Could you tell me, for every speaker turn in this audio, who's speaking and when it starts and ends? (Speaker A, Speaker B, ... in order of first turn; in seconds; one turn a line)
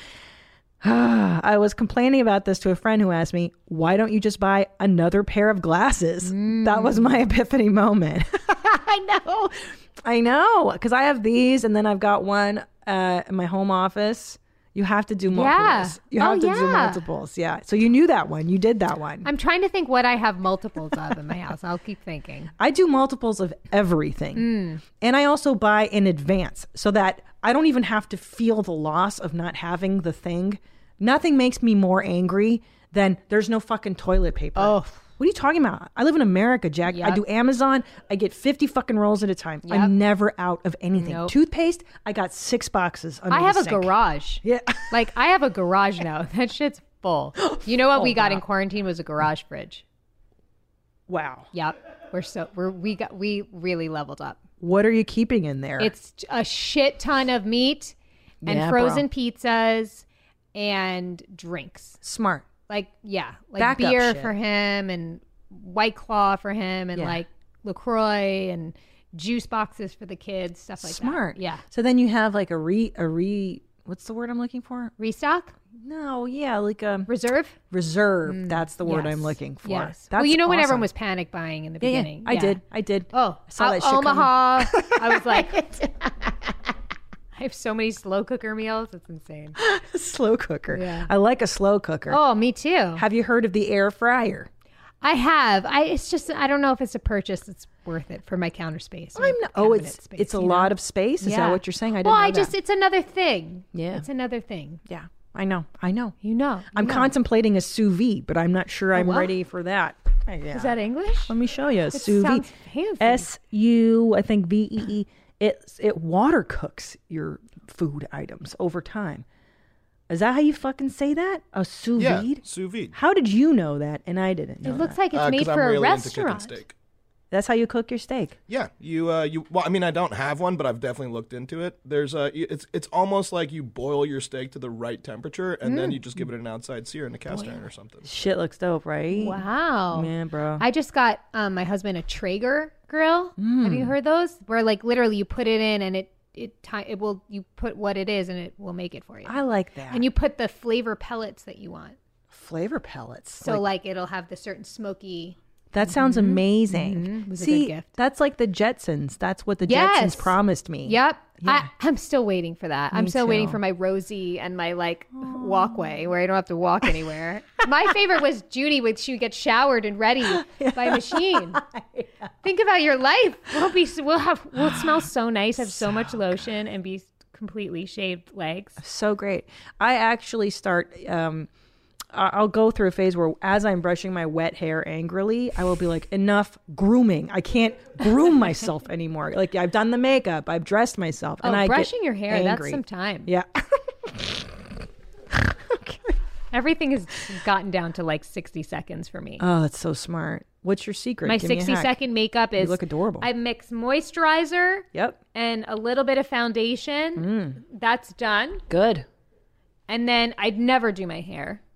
Speaker A: 0.8-19.3
Speaker B: 6.2-7.1
Speaker B: 15.3-17.0
Speaker B: 19.2-22.5
Speaker A: 22.6-45.0
Speaker B: 24.4-24.8
Speaker B: 34.5-35.0
Speaker B: 36.9-37.2
Speaker B: 39.6-39.9
Speaker B: 40.9-41.3
Speaker B: 43.3-49.8
Speaker A: 47.4-48.4
Speaker A: 51.1-51.5
Speaker B: 51.5-54.4
Speaker A: 54.6-55.9
Speaker B: 55.8-62.0
Speaker A: 58.4-59.0
Speaker A: 62.0-62.5
Speaker B: 62.7-71.6
Speaker A: 63.6-64.3
Speaker A: 66.9-67.2
Speaker A: 70.8-74.9
Speaker B: 75.0-75.5
Speaker A: 75.7-77.1
Speaker B: 77.1-77.6
Speaker A: 77.7-80.9
Speaker B: 78.3-82.6
Speaker A: 81.8-86.3
Speaker B: 83.1-85.7
Speaker B: 87.3-89.6
Speaker A: 89.5-92.2
Speaker B: 90.7-91.1
Speaker B: 92.1-93.0
Speaker A: 93.0-94.5
Speaker B: 95.0-104.8
Speaker A: 99.1-102.5
Speaker A: 103.7-104.0
Speaker A: 104.8-106.2
Speaker B: 106.2-107.1
Speaker A: 106.7-110.7
Speaker B: 108.9-109.3
Speaker B: 110.5-111.3
Speaker A: 111.3-112.5
Speaker B: 111.9-113.3
Speaker A: 113.0-119.2
Speaker A: 120.1-125.0
Speaker C: 122.0-122.9
Speaker B: 124.6-126.6
Speaker C: 125.1-126.7
Speaker A: 127.3-128.3
Speaker C: 128.5-138.1
Speaker B: 135.7-135.9
Speaker A: 137.3-140.6
Speaker B: 139.1-149.4
Speaker A: 143.4-143.9
Speaker A: 149.2-150.1
Speaker B: 149.9-152.0
Speaker A: 152.3-153.7
Speaker B: 153.4-157.9
Speaker A: 155.7-161.7
Speaker B: 159.6-171.6
Speaker A: 162.9-163.6
Speaker A: 165.2-166.1
Speaker A: 170.3-172.3
Speaker B: 172.4-178.8
Speaker A: 174.6-175.0
Speaker A: 175.6-176.5
Speaker A: 178.8-181.5
Speaker A: 182.1-194.6
Speaker B: 191.4-193.3
Speaker A: 195.3-196.2
Speaker B: 196.5-199.4
Speaker A: 199.4-202.0
Speaker B: 201.2-208.6
Speaker A: 202.6-203.3
Speaker A: 204.9-205.2
Speaker A: 207.2-207.6
Speaker A: 208.7-209.1
Speaker B: 209.9-211.6